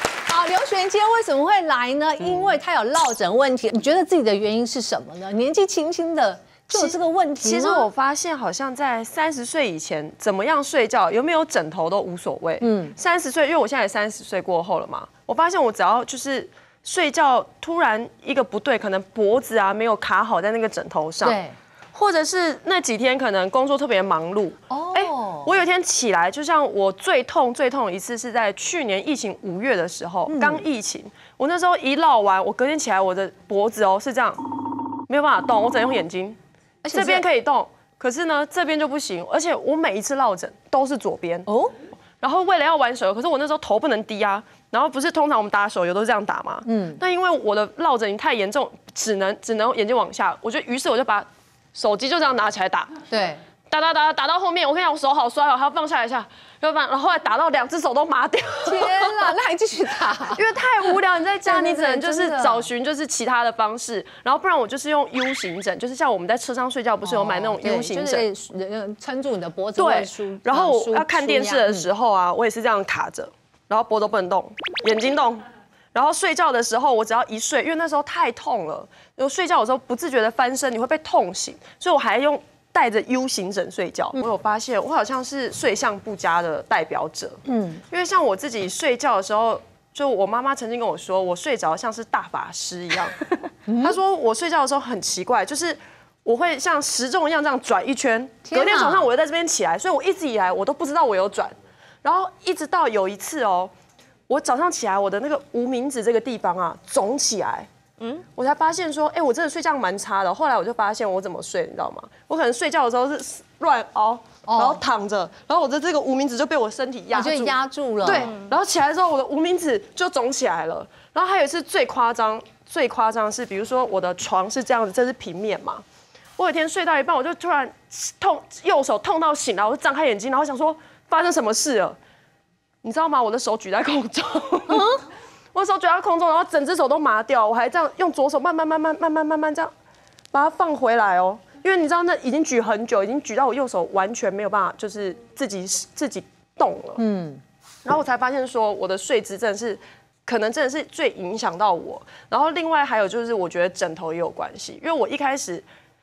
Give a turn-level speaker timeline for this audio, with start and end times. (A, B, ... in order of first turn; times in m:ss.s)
0:00.3-0:07.9 A
0:06.7-0:21.4 B
0:12.6-0:12.9 A
0:21.2-0:21.5 A
0:21.9-0:34.4 B
0:24.7-0:25.5 A
0:30.3-0:30.6 A
0:35.1-0:36.4 B
0:36.8-0:37.2 A
0:36.9-0:41.5 B
0:41.5-0:41.7 A
0:42.2-0:52.9 B
0:46.6-0:47.0 A
0:53.1-0:53.4 A
0:53.7-0:59.4 B
0:58.6-1:00.4 A
1:00.3-1:08.2 B
1:01.4-1:02.7 A
1:07.0-1:11.9 A
1:09.8-1:27.4 B
1:27.4-1:27.8 A
1:27.9-1:33.2 B
1:33.7-1:34.0 A
1:33.7-1:43.7 B
1:38.5-1:39.1 A
1:44.3-2:05.8 B
1:54.5-1:54.8 A
1:57.1-1:58.3 A
2:06.4-2:12.0 B
2:12.8-2:14.9 B
2:14.7-2:15.0 A
2:15.5-2:19.7 B
2:20.3-2:27.0 B
2:27.0-2:27.4 A
2:27.8-2:35.6 B